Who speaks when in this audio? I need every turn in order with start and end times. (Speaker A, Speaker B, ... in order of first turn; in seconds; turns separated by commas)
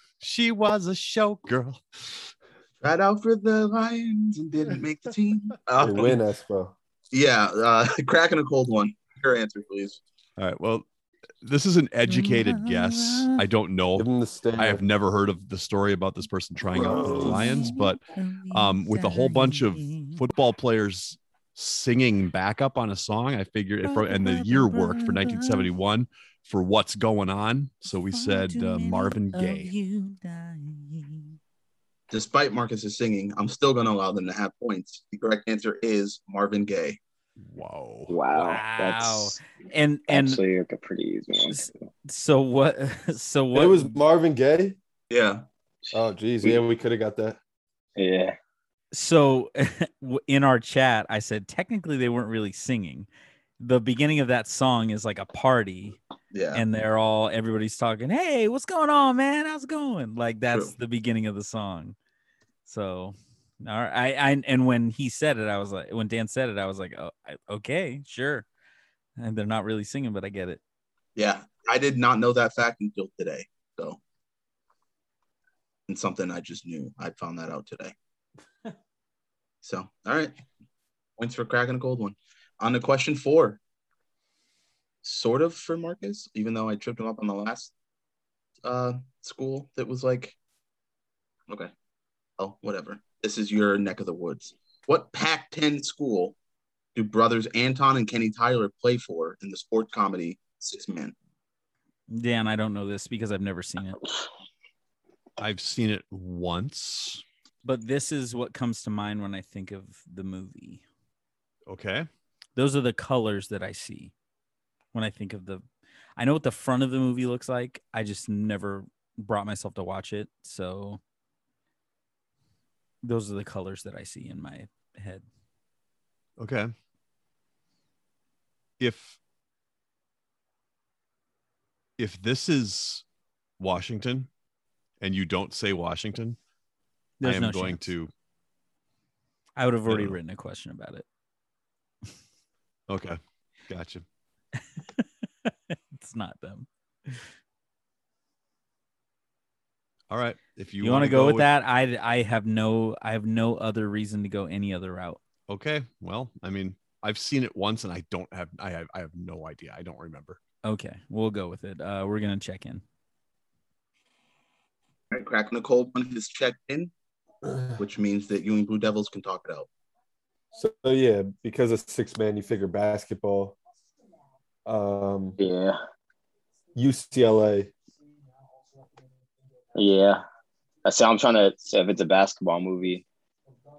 Speaker A: 0.2-2.2, Speaker B: 2.8-6.2, Speaker C: 5.8-6.7, Speaker B: 7.1-10.0, Speaker A: 10.4-10.8, Speaker A: 11.4-29.7, Speaker D: 12.1-13.4, Speaker C: 13.9-14.8, Speaker C: 16.7-17.5, Speaker D: 17.2-20.2, Speaker D: 23.8-25.7, Speaker D: 27.9-31.4, Speaker B: 32.1-37.0, Speaker A: 37.4-38.1, Speaker E: 38.1-39.4, Speaker D: 38.3-40.4, Speaker E: 40.1-41.7, Speaker D: 41.5-44.0, Speaker C: 43.5-44.8, Speaker B: 45.1-45.4, Speaker C: 45.9-47.4, Speaker E: 48.0-48.4, Speaker D: 48.9-53.1, Speaker D: 53.6-56.0, Speaker B: 56.3-56.6, Speaker D: 56.5-62.0, Speaker D: 62.6-68.5, Speaker D: 69.2-70.6, Speaker B: 71.2-74.0, Speaker B: 75.9-77.9, Speaker B: 79.6-80.3, Speaker B: 81.2-83.6, Speaker B: 85.0-87.7, Speaker B: 88.6-90.3, Speaker B: 92.4-96.3, Speaker B: 96.9-101.1, Speaker D: 102.1-104.0, Speaker A: 105.4-107.2, Speaker D: 107.6-110.8, Speaker A: 111.7-112.1, Speaker D: 112.5-114.1, Speaker D: 114.9-115.6, Speaker D: 116.2-121.0, Speaker D: 123.0-125.2, Speaker A: 126.4-126.7, Speaker A: 128.8-129.2, Speaker A: 132.0-133.0, Speaker A: 133.6-134.3, Speaker A: 135.0-136.4, Speaker D: 137.2-137.9, Speaker A: 137.2-138.1, Speaker D: 139.6-141.1, Speaker A: 139.9-140.2, Speaker A: 142.9-144.0, Speaker D: 144.8-147.2, Speaker A: 150.1-151.5, Speaker D: 150.8-155.2, Speaker A: 155.5-160.4, Speaker D: 160.6-162.8, Speaker B: 165.1-166.9, Speaker C: 167.5-167.7, Speaker B: 167.8-169.7, Speaker C: 170.5-173.6, Speaker C: 174.6-175.4, Speaker E: 175.4-175.8, Speaker C: 176.7-177.7, Speaker E: 179.7-180.2, Speaker E: 180.8-183.0